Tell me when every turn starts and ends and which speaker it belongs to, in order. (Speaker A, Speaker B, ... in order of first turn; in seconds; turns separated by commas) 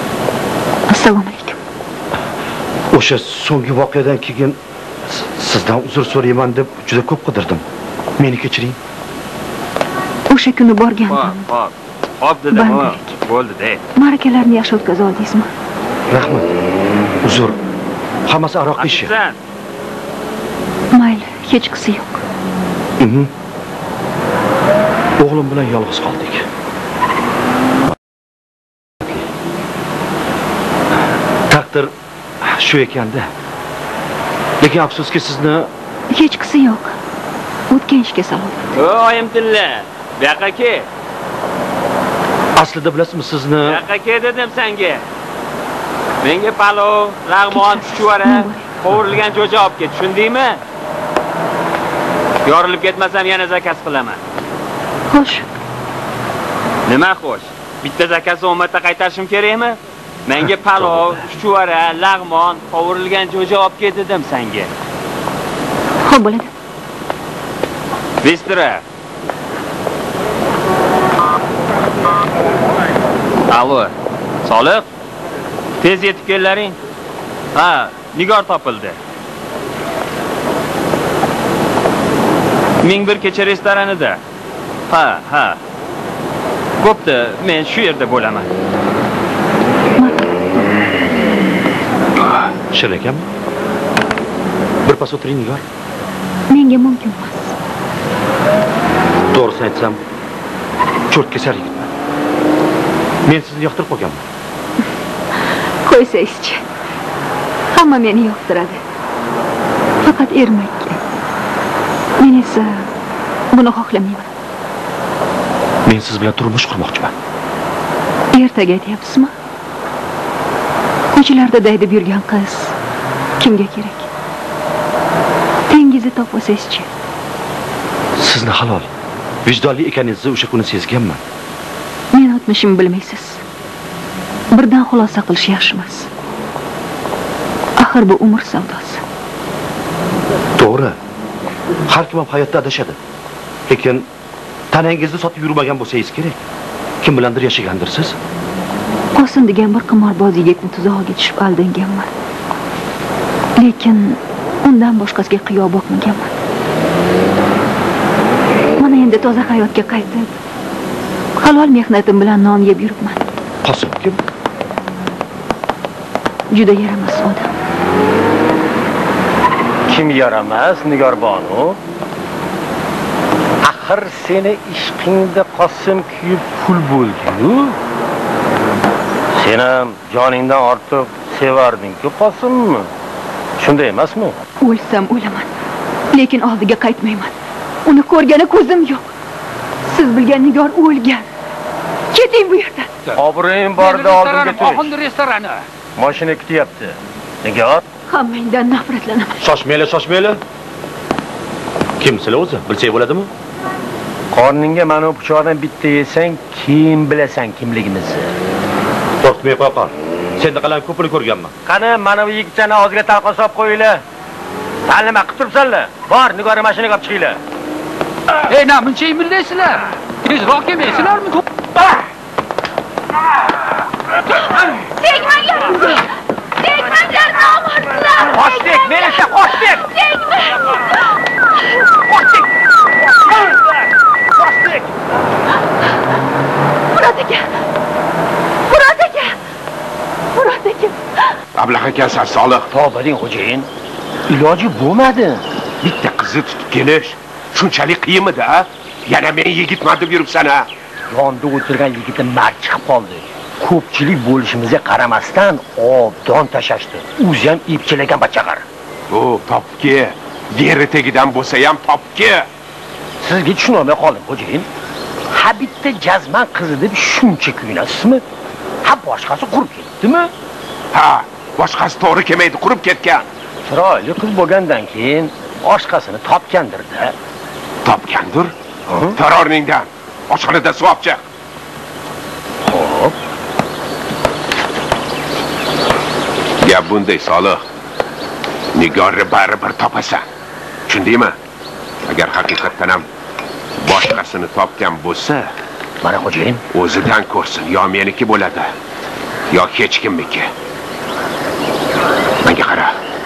Speaker A: 0.9-1.6, Speaker B: 2.9-7.6, Speaker B: 8.2-8.8, Speaker A: 10.3-11.4, Speaker C: 11.1-13.8, Speaker A: 12.5-13.2, Speaker A: 13.9-15.5, Speaker B: 16.1-16.5, Speaker B: 17.2-17.6, Speaker B: 18.3-19.1, Speaker C: 18.8-19.4, Speaker A: 20.9-22.2, Speaker B: 23.0-23.3, Speaker B: 25.2-26.4, Speaker B: 31.5-31.9, Speaker B: 32.4-33.3, Speaker B: 34.6-35.7, Speaker A: 36.1-37.0, Speaker A: 37.7-38.8, Speaker C: 38.8-40.9, Speaker B: 42.5-43.8, Speaker C: 43.6-45.0, Speaker C: 46.2-50.6, Speaker A: 47.5-48.7, Speaker C: 52.4-54.2, Speaker A: 55.1-55.5, Speaker C: 56.9-64.7, Speaker A: 66.0-66.5, Speaker C: 68.2-68.8, Speaker C: 73.5-73.9, Speaker C: 74.4-74.8, Speaker C: 75.8-76.7, Speaker C: 77.5-79.0, Speaker C: 82.8-84.2, Speaker C: 84.9-85.6, Speaker C: 86.8-88.5, Speaker A: 90.0-90.3, Speaker B: 92.7-93.3, Speaker B: 94.8-95.6, Speaker A: 96.5-97.5, Speaker B: 99.3-100.0, Speaker B: 101.1-101.9, Speaker B: 103.2-104.2, Speaker A: 105.8-106.6, Speaker A: 107.7-108.8, Speaker A: 110.0-111.0, Speaker A: 112.2-112.9, Speaker A: 113.5-114.3, Speaker B: 115.8-117.1, Speaker A: 118.3-119.3, Speaker A: 121.1-122.7, Speaker A: 123.4-124.1, Speaker A: 125.7-126.9, Speaker B: 128.2-128.9, Speaker B: 129.4-131.2, Speaker A: 132.1-133.4, Speaker A: 134.5-136.1, Speaker A: 137.8-139.0, Speaker B: 140.6-140.9, Speaker B: 141.9-143.0, Speaker B: 143.7-144.1, Speaker B: 144.7-146.4, Speaker B: 147.0-148.2, Speaker A: 149.1-152.1, Speaker A: 153.6-156.3, Speaker A: 158.8-160.3, Speaker A: 161.4-163.2, Speaker B: 163.6-164.2, Speaker A: 166.5-167.5, Speaker D: 169.9-171.8, Speaker D: 173.6-177.8, Speaker D: 179.3-182.9, Speaker D: 183.6-184.3, Speaker A: 184.6-185.5, Speaker A: 186.1-187.3, Speaker A: 187.8-189.1, Speaker A: 189.9-191.2, Speaker A: 192.1-192.9, Speaker D: 193.2-194.9, Speaker E: 193.8-195.6, Speaker D: 195.9-197.8, Speaker A: 198.1-199.4, Speaker B: 199.4-200.4, Speaker B: 202.0-203.3, Speaker D: 204.3-208.2, Speaker B: 209.2-211.5, Speaker D: 211.7-214.0, Speaker D: 214.9-217.4, Speaker E: 218.5-221.4, Speaker D: 228.3-229.0, Speaker D: 234.4-234.8, Speaker A: 236.9-237.4, Speaker A: 238.7-239.3, Speaker A: 240.3-240.9, Speaker F: 241.6-242.7, Speaker D: 242.7-243.7, Speaker D: 244.3-245.4, Speaker F: 245.8-250.7, Speaker D: 251.1-258.6, Speaker F: 259.1-262.4, Speaker D: 263.2-264.7, Speaker D: 265.3-268.2, Speaker D: 268.8-270.3, Speaker F: 270.9-273.2, Speaker D: 273.6-277.1, Speaker F: 277.8-281.2, Speaker D: 278.9-279.1, Speaker D: 282.7-283.1, Speaker F: 286.6-287.6, Speaker F: 288.7-290.2, Speaker F: 290.9-291.3, Speaker F: 292.1-293.0, Speaker F: 293.8-295.5, Speaker D: 296.0-296.6, Speaker F: 296.7-298.7, Speaker F: 299.5-300.5, Speaker F: 302.4-302.9